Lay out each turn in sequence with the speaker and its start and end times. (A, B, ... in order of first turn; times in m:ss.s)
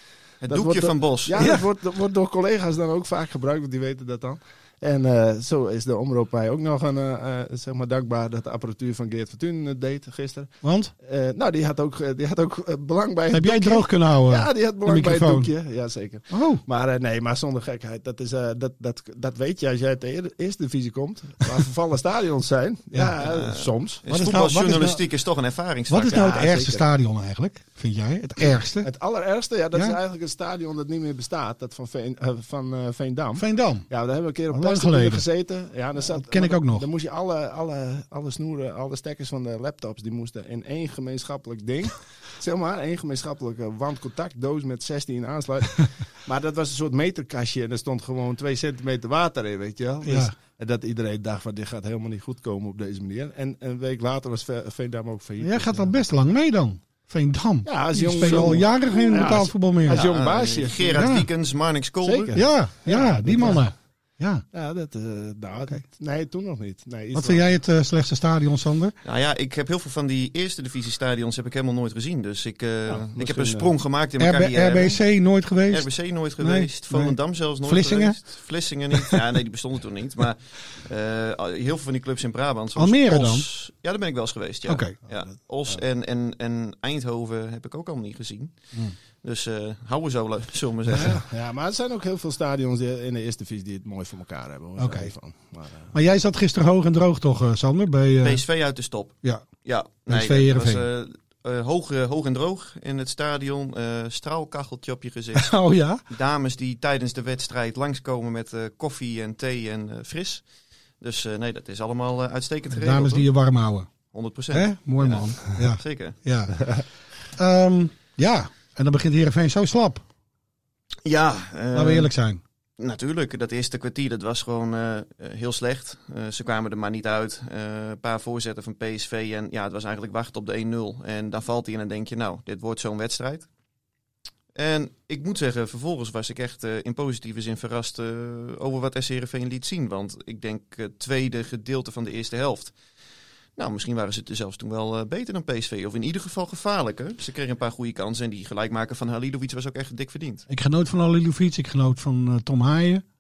0:00.4-0:01.4 A
0:00.4-0:24.0 B
0:10.6-0:10.9 C
0:13.3-0:15.5 C
0:16.3-0:16.6 C
0:23.2-0:26.4 A
0:24.1-0:25.0 C
0:25.9-0:28.9 C
0:26.1-0:26.9 B
0:28.8-0:56.0 B
0:33.4-0:33.9 C
0:34.5-0:35.2 C
0:36.1-0:36.9 C
0:50.0-0:50.3 C
0:55.4-1:00.0 C
0:57.6-1:01.1 B
0:59.9-1:02.3 A
1:01.0-1:01.3 C
1:02.0-1:03.6 B
1:02.3-1:04.4 C
1:04.5-1:07.4 B
1:07.1-1:09.0 C
1:09.0-1:15.0 A
1:12.9-1:13.7 B
1:14.2-1:18.2 C
1:15.7-1:28.5 A
1:22.8-1:23.5 C
1:24.7-1:24.9 C
1:29.2-1:31.2 A
1:30.9-1:36.0 B
1:34.8-1:35.1 C
1:35.9-1:38.4 C
1:38.2-1:45.6 A
1:40.1-1:40.8 C
1:45.4-1:46.0 C
1:46.1-1:50.4 A
1:51.0-1:53.2 A
1:52.7-1:53.9 C
1:54.1-1:56.2 A
1:54.5-2:00.0 C
2:01.0-2:02.1 A
2:01.7-2:02.4 C
2:02.8-2:13.5 A
2:14.5-2:22.7 A
2:23.6-2:30.4 A
2:30.5-2:33.0 C